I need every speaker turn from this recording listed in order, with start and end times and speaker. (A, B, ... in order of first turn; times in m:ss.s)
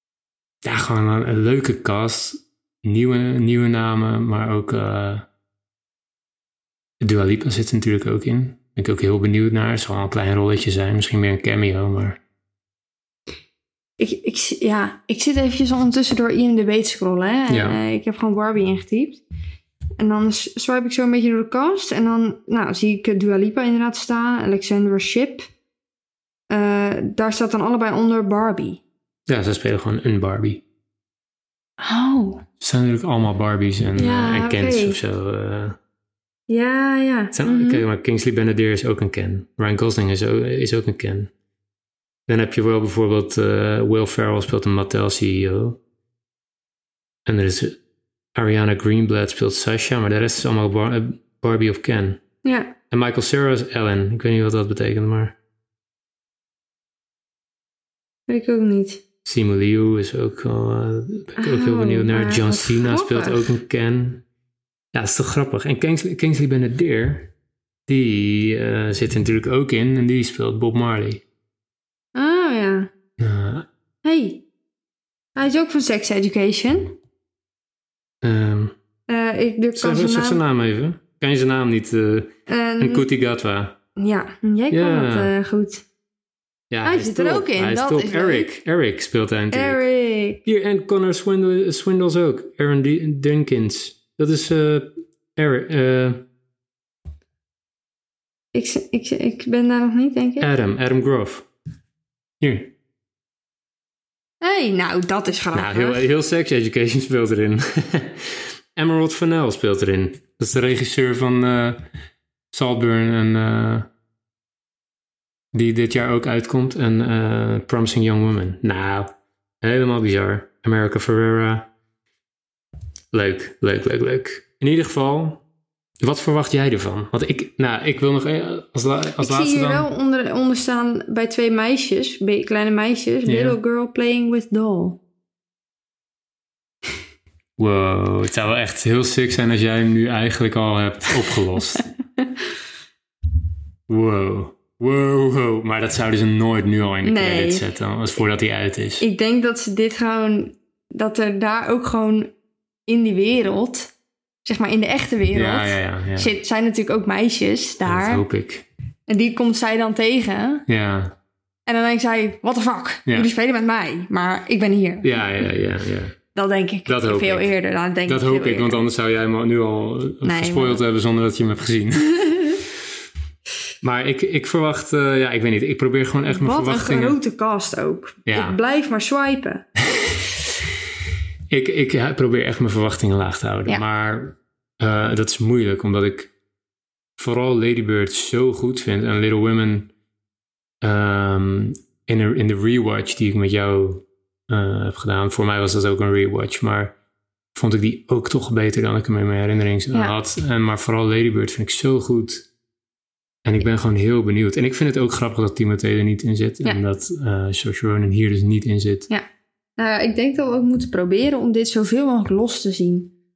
0:00.6-0:05.2 A
0:07.0-0:12.2 A
0:14.0-0:19.2 B
0:17.5-0:17.8 A
0:20.0-0:25.5 B
0:26.5-0:28.8 B
0:29.3-0:30.6 A
0:31.8-0:32.4 B
0:32.6-0:35.8 A
0:34.0-0:35.0 B
0:36.5-0:37.8 B
0:37.3-0:41.3 A
0:42.3-0:45.8 A
0:47.2-0:47.8 A
0:48.3-0:52.2 A
0:52.4-0:52.7 B
0:52.9-0:55.4 A
0:58.3-0:59.0 B
0:59.2-1:04.2 A
1:01.4-1:03.4 B
1:04.9-1:07.3 A
1:07.9-1:11.2 A
1:12.1-1:12.9 B
1:13.2-1:13.7 A
1:14.0-1:14.4 B
1:15.3-1:17.0 B
1:18.2-1:18.7 A
1:19.1-1:20.4 B
1:19.8-1:23.8 A
1:22.5-1:23.1 B
1:24.0-1:25.8 B
1:24.7-1:25.3 A
1:26.7-1:29.8 A
1:26.8-1:28.5 B
1:29.5-1:30.4 B
1:30.4-1:36.2 A
1:38.5-1:40.5 B
1:40.4-1:41.5 A
1:42.4-1:42.7 A
1:44.4-1:46.0 B
1:45.5-1:51.8 A
1:52.5-1:53.9 A
1:55.5-1:59.1 A
1:59.6-2:01.7 A
2:03.1-2:05.4 A
2:06.0-2:09.9 A
2:09.2-2:15.0 B
2:13.2-2:13.6 A
2:17.6-2:21.9 A
2:22.2-2:22.4 B
2:23.9-2:29.0 A
2:27.0-2:27.6 B
2:29.0-2:32.3 B
2:32.9-2:33.9 B
2:34.4-2:38.2 B
2:35.3-2:36.3 A
2:37.8-2:38.6 A
2:39.1-2:40.6 B
2:40.7-2:41.1 A
2:41.6-2:45.1 B
2:45.0-2:46.2 A
2:46.3-2:48.8 B
2:46.8-2:47.5 A
2:48.0-2:52.5 A
2:50.2-2:50.8 B
2:52.3-2:52.6 B
2:53.8-2:57.2 A
2:56.3-2:59.6 B
2:58.2-2:58.6 A
3:01.5-3:06.3 A
3:07.2-3:09.9 A
3:10.8-3:17.0 A
3:17.5-3:22.5 A
3:23.4-3:29.1 A
3:29.8-3:33.1 B